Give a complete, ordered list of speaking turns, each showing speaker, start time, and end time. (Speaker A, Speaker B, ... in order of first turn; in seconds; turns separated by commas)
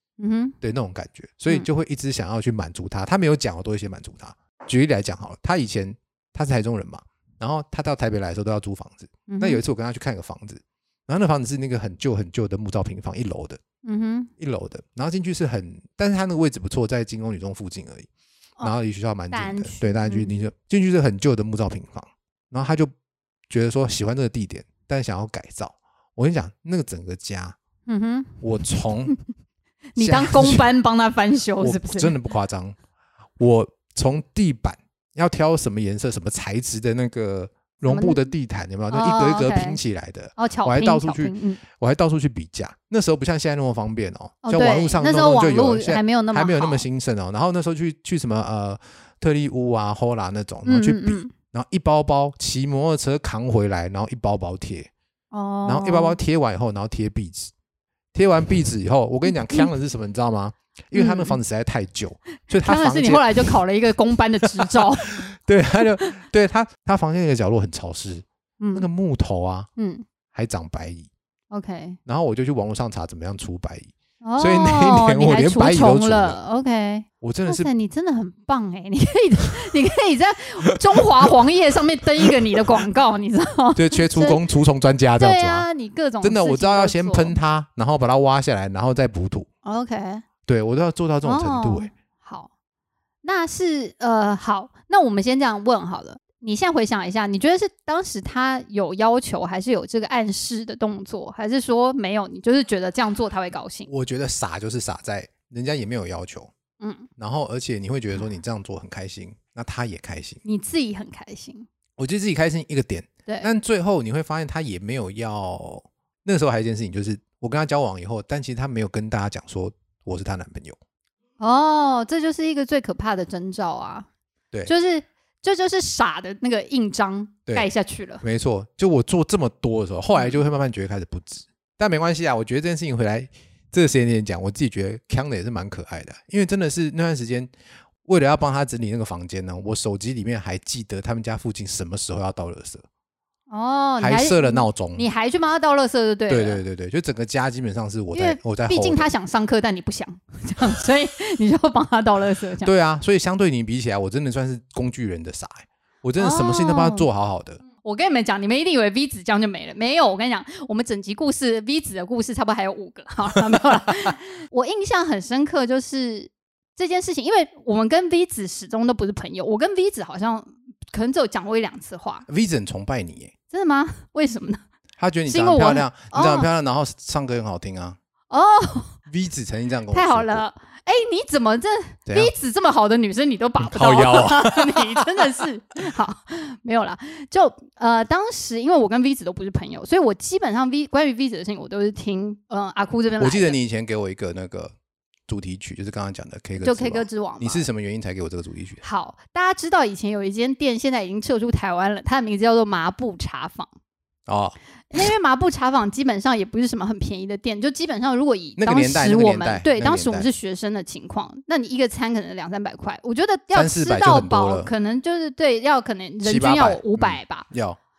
Speaker A: 0.2-0.6, Speaker B: 0.6-13.6, Speaker A: 9.3-9.6, Speaker A: 13.8-14.3, Speaker B: 14.4-18.1, Speaker B: 18.6-22.9, Speaker A: 19.3-20.3, Speaker B: 23.5-27.6, Speaker A: 27.9-28.4, Speaker B: 28.4-29.1, Speaker A: 29.9-32.2, Speaker B: 30.0-30.7, Speaker B: 31.6-32.8, Speaker B: 33.4-54.9, Speaker A: 37.8-38.2, Speaker A: 38.9-39.8, Speaker A: 40.4-41.6, Speaker A: 44.4-46.8, Speaker A: 50.6-51.3, Speaker A: 55.3-56.2, Speaker B: 55.6-57.5, Speaker B: 58.1-63.5, Speaker A: 60.9-61.4, Speaker A: 62.6-65.2, Speaker B: 64.5-69.7, Speaker A: 68.6-68.9, Speaker A: 69.8-70.0, Speaker B: 70.3-71.1, Speaker A: 71.5-72.0, Speaker B: 72.0-76.4, Speaker A: 74.2-84.4, Speaker B: 77.2-77.7, Speaker B: 83.8-85.7, Speaker A: 85.2-87.3, Speaker B: 86.2-89.5, Speaker A: 89.6-90.2, Speaker B: 90.5-91.9, Speaker A: 91.2-92.5, Speaker A: 93.2-103.9, Speaker B: 103.9-106.5, Speaker A: 106.8-107.1, Speaker B: 107.2-110.4, Speaker A: 110.4-111.7, Speaker B: 112.0-120.8, Speaker A: 121.4-124.1, Speaker A: 124.7-128.2, Speaker B: 128.2-137.5, Speaker B: 138.0-142.8, Speaker A: 143.5-146.6, Speaker B: 144.0-145.0, Speaker B: 146.3-149.1, Speaker A: 148.1-152.7, Speaker B: 152.6-157.6, Speaker A: 156.2-157.1, Speaker A: 157.8-172.2, Speaker B: 172.3-173.3, Speaker A: 173.5-174.6, Speaker B: 175.0-178.0, Speaker A: 175.3-176.5, Speaker A: 178.3-179.0, Speaker B: 179.1-180.4, Speaker A: 179.9-193.6, Speaker B: 182.1-182.3, Speaker B: 183.6-185.1, Speaker B: 193.2-194.8, Speaker B: 195.3-198.8, Speaker A: 196.6-197.7, Speaker A: 198.8-203.7, Speaker B: 204.3-205.0, Speaker A: 204.9-217.5, Speaker B: 208.6-210.3, Speaker B: 213.5-214.7, Speaker B: 216.2-217.8